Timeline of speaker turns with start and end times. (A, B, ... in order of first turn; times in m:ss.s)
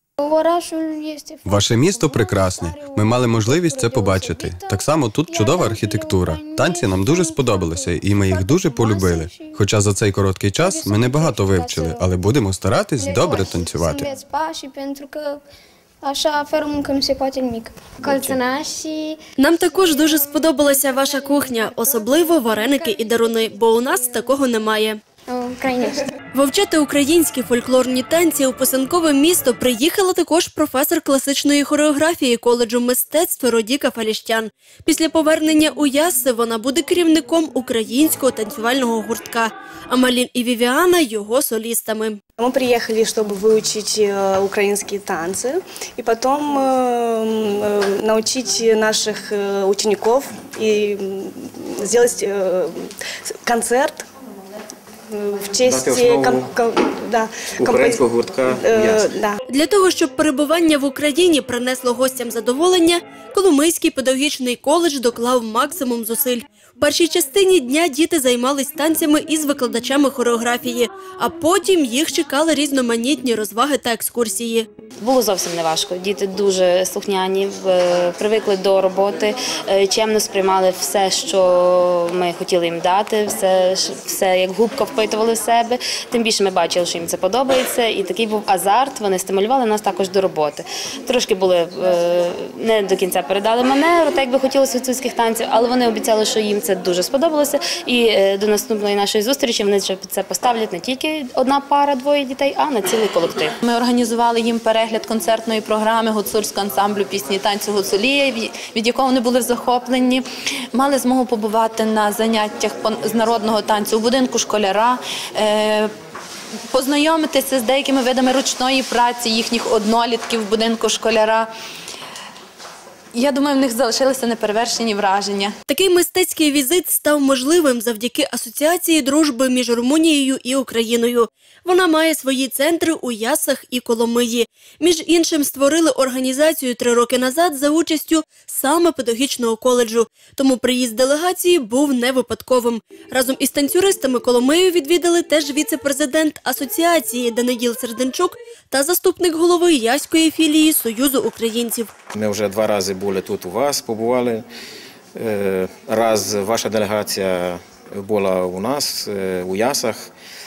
0:00.2-0:09.6 A
0:01.4-0:14.1 B
0:10.6-0:12.2 A
0:13.0-0:15.4 A
0:16.0-0:19.2 A
0:18.0-0:18.4 B
0:19.4-0:25.0 C
0:19.7-0:24.4 A
0:25.3-0:26.0 A
0:26.3-0:42.2 C
0:42.4-0:52.8 D
0:53.4-0:54.0 D
0:55.1-0:59.4 D
0:55.6-0:56.5 E
0:57.6-0:59.1 E
0:59.5-1:14.7 C
1:15.0-1:43.6 F
1:43.6-1:50.2 G
1:50.7-1:55.9 G
1:56.7-2:01.5 G
2:03.1-2:05.5 G
2:05.7-2:31.9 C
2:32.1-2:34.5 E
2:35.2-2:40.1 E